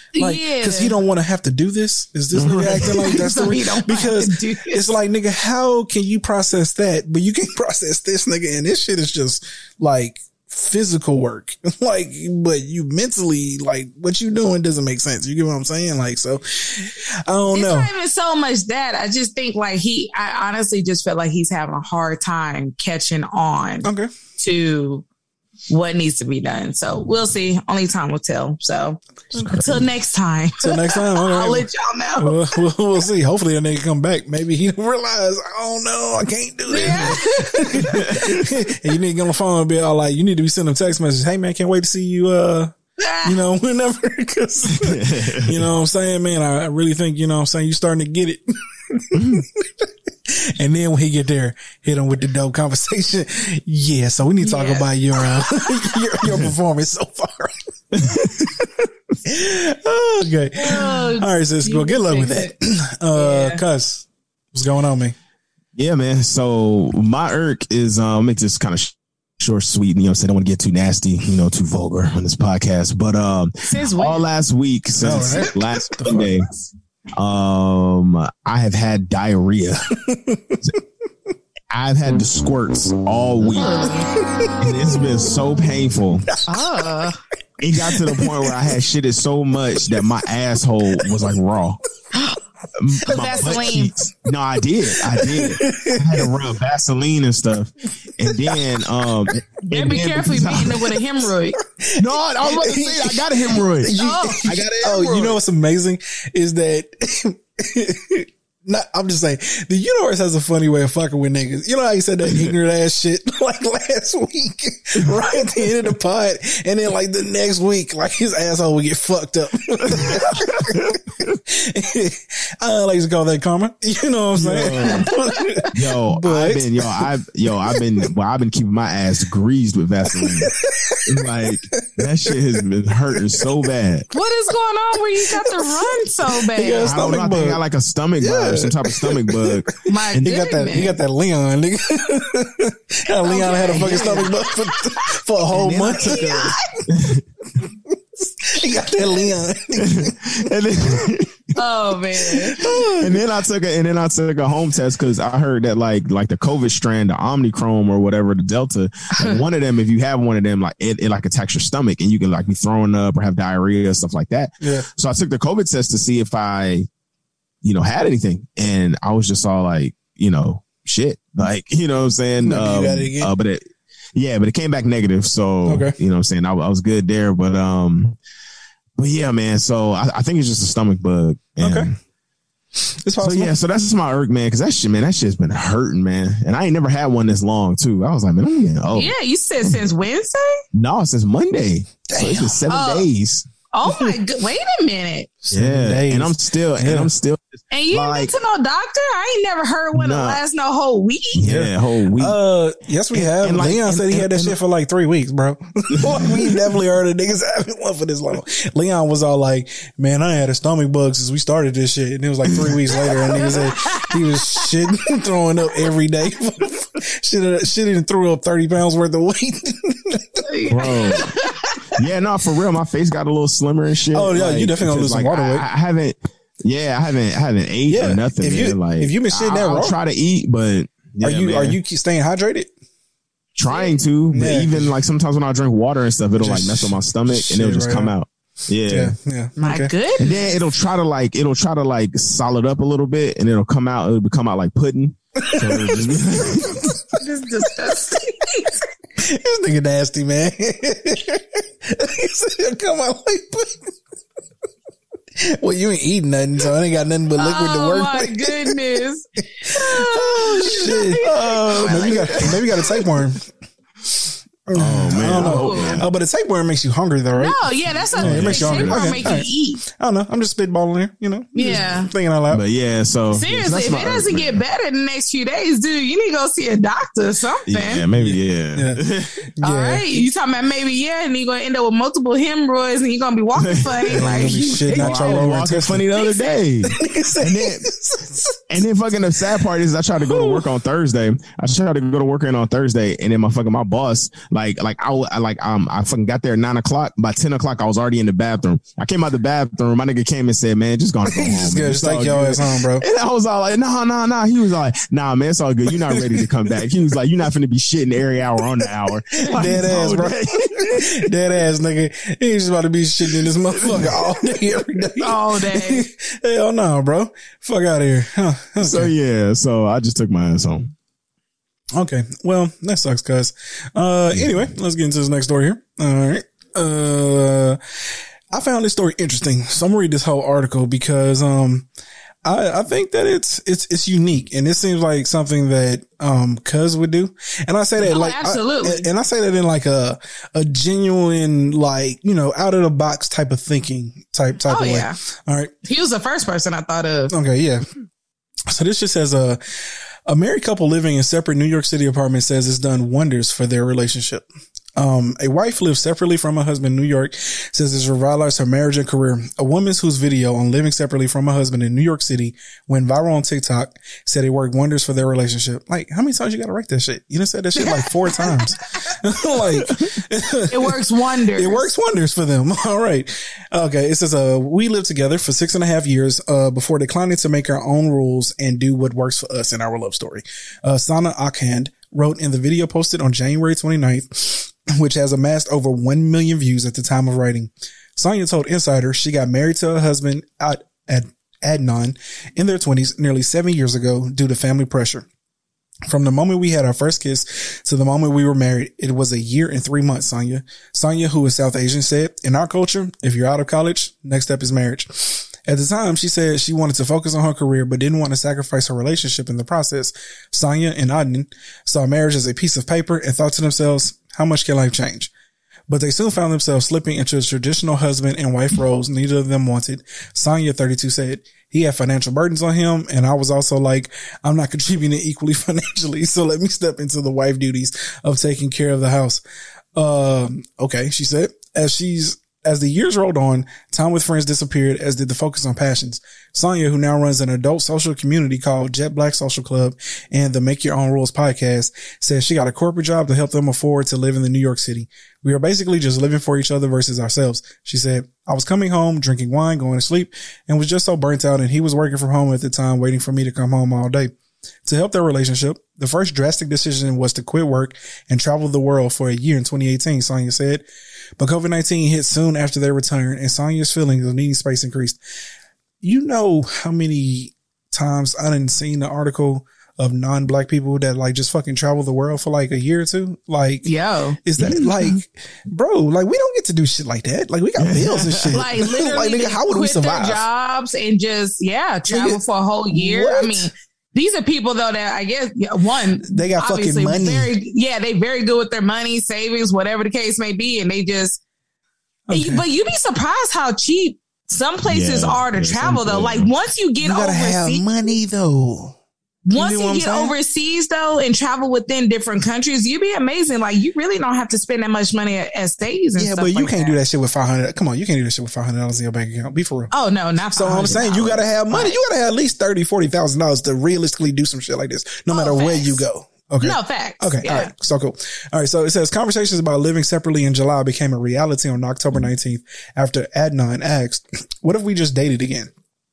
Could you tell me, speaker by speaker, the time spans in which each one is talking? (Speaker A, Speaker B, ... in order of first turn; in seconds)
Speaker A: 0.1-0.9, 2.8-4.8, 17.5-25.0, 25.7-32.6, 36.7-38.0, 43.0-43.4, 54.4-55.7, 60.5-62.5, 63.1-63.6, 73.7-74.2, 83.5-84.2, 86.5-87.2, 92.1-92.4, 93.0-93.9, 99.6-101.6, 104.0-104.5, 124.8-125.6, 134.1-136.9, 139.8-140.9, 143.2-145.1, 145.9-146.6, 151.6-152.6, 188.9-190.5, 192.7-193.1, 193.7-195.3, 197.7-201.4, 213.1-214.7, 220.4-221.8, 233.7-234.0, 239.6-240.3, 247.2-248.7, 257.4-262.7, 265.4-266.0, 267.4-269.8, 271.6-272.1, 273.3-278.0, 279.6-285.3, 315.0-316.1, 338.0-339.1, 344.6-345.1, 345.8-347.3, 367.8-368.7, 370.7-371.9, 473.8-474.8, 478.5-491.4, 492.3-497.9, 499.4-507.0, 509.9-511.9, 515.3-516.0, 516.6-517.7
Speaker B: 0.2-17.9, 23.8-24.1, 30.6-57.5, 58.4-58.7, 59.2-65.2, 75.0-76.3, 80.0-80.6, 84.2-84.8, 86.4-86.6, 87.8-88.7, 95.0-96.3, 98.2-99.3, 101.8-127.1, 127.7-128.1, 130.1-132.6, 133.1-133.5, 135.4-135.9, 136.5-137.6, 138.2-151.1, 152.4-153.2, 164.6-164.9, 172.4-173.3, 175.7-175.9, 181.6-181.9, 183.0-183.5, 192.1-192.6, 193.8-194.1, 195.4-197.1, 201.4-220.9, 224.1-225.6, 227.9-229.9, 231.2-232.7, 234.3-234.9, 236.4-238.1, 238.9-240.4, 245.4-247.2, 247.8-253.9, 255.4-259.0, 259.6-263.5, 264.1-272.6, 278.2-279.0, 279.6-280.0, 284.1-286.1, 286.8-288.6, 290.1-290.7, 301.2-303.0, 305.9-306.7, 308.6-308.9, 309.5-319.1, 321.9-327.8, 328.5-331.9, 332.4-345.7, 347.3-347.8, 348.7-349.6, 350.3-395.2, 396.1-415.3, 415.9-429.4, 429.9-454.3, 454.8-460.8, 461.4-465.2, 466.0-473.9, 474.4-480.4, 482.1-483.7, 486.2-487.5, 492.3-492.6, 497.0-499.0, 499.5-500.3, 506.2-509.9, 510.5-525.7
Speaker C: 2.3-3.2, 29.3-29.8, 37.9-38.4, 44.7-45.6, 49.1-49.4, 57.9-58.5, 65.8-76.6, 77.1-79.9, 81.7-83.9, 84.6-86.3, 87.6-91.8, 92.8-101.0, 102.0-105.4, 119.8-121.4, 124.3-125.1, 125.7-130.5, 131.1-134.1, 136.8-140.3, 143.7-144.3, 145.5-147.2, 149.7-151.4, 152.6-166.9, 167.6-173.6, 174.1-178.2, 179.0-181.9, 183.2-189.1, 190.7-193.5, 195.5-198.3, 199.9-200.4, 201.3-202.4, 203.1-204.6, 206.0-206.6, 212.5-212.8, 220.7-221.3, 221.9-231.8, 233.6-239.1, 240.2-247.0, 261.2-263.0, 264.7-266.1, 268.1-269.3, 272.5-274.6, 277.7-279.4, 283.6-287.9, 288.7-311.2, 313.5-314.6, 318.8-320.9, 477.8-478.6, 494.8-496.5